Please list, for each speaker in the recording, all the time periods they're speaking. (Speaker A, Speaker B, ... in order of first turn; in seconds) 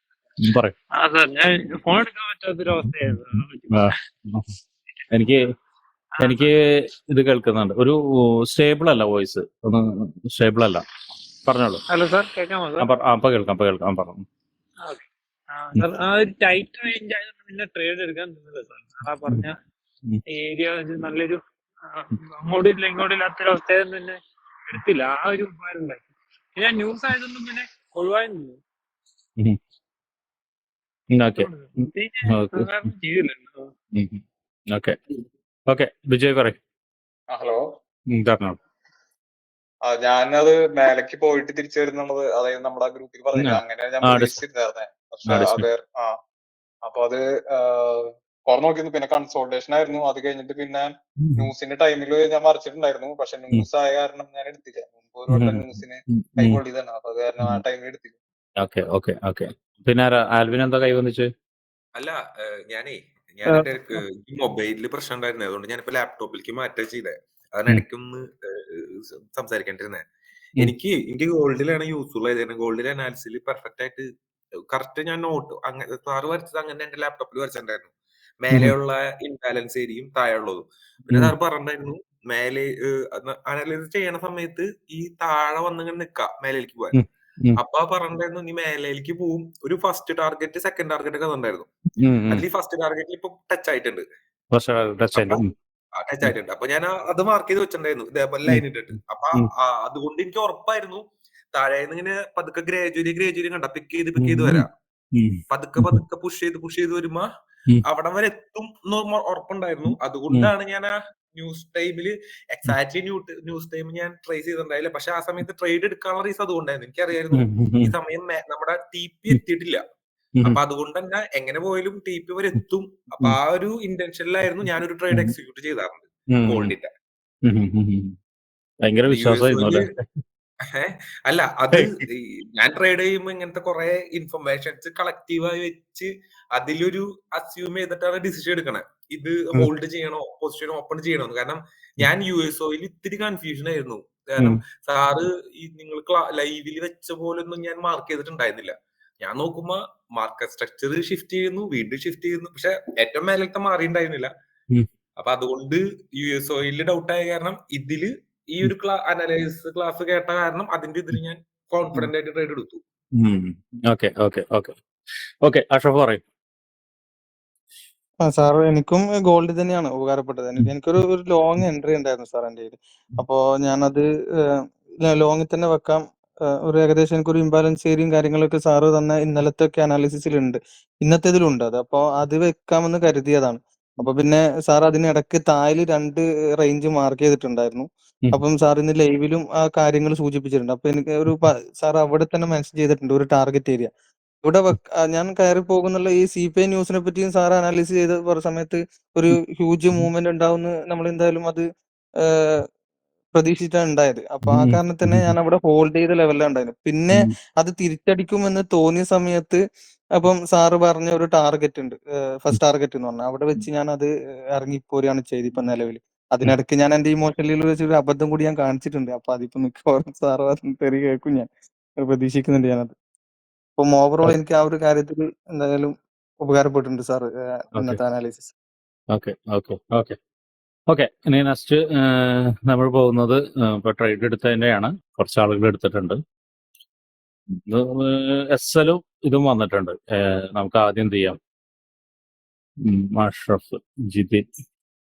Speaker A: 0.4-0.8, 3.7-4.5, 5.1-5.5, 6.2-10.8, 11.4-11.8, 12.8-14.2, 31.1-31.5, 32.2-32.9, 33.9-35.0, 35.7-36.6, 38.1-38.6, 43.4-44.4, 45.3-45.6, 51.2-51.5, 55.3-56.6, 58.6-61.3, 86.9-87.6, 92.0-92.4, 94.5-95.5, 104.2-106.0, 117.3-117.9, 126.3-126.7, 127.4-128.1, 128.8-129.9, 163.2-164.7, 165.4-166.2, 204.5-205.3, 229.1-230.2, 230.9-236.2, 237.5-241.4, 242.8-244.4
Speaker B: 0.9-3.9, 6.2-6.5, 11.9-12.9, 14.8-19.6, 20.3-26.0, 26.6-28.6, 31.4-33.7
Speaker C: 37.3-37.7, 39.8-46.1, 46.8-58.1
Speaker D: 62.0-70.0, 70.6-74.0, 74.7-87.0, 87.6-91.7, 92.3-94.0, 95.2-95.4, 96.0-101.0, 101.5-104.7, 105.5-107.3, 107.8-119.8, 120.4-126.9, 129.1-129.8, 130.7-154.3, 155.2-162.8
Speaker E: 168.2-174.1, 175.0-193.9, 194.4-201.7, 202.2-202.6, 203.3-209.6, 210.2-222.9, 223.8-228.5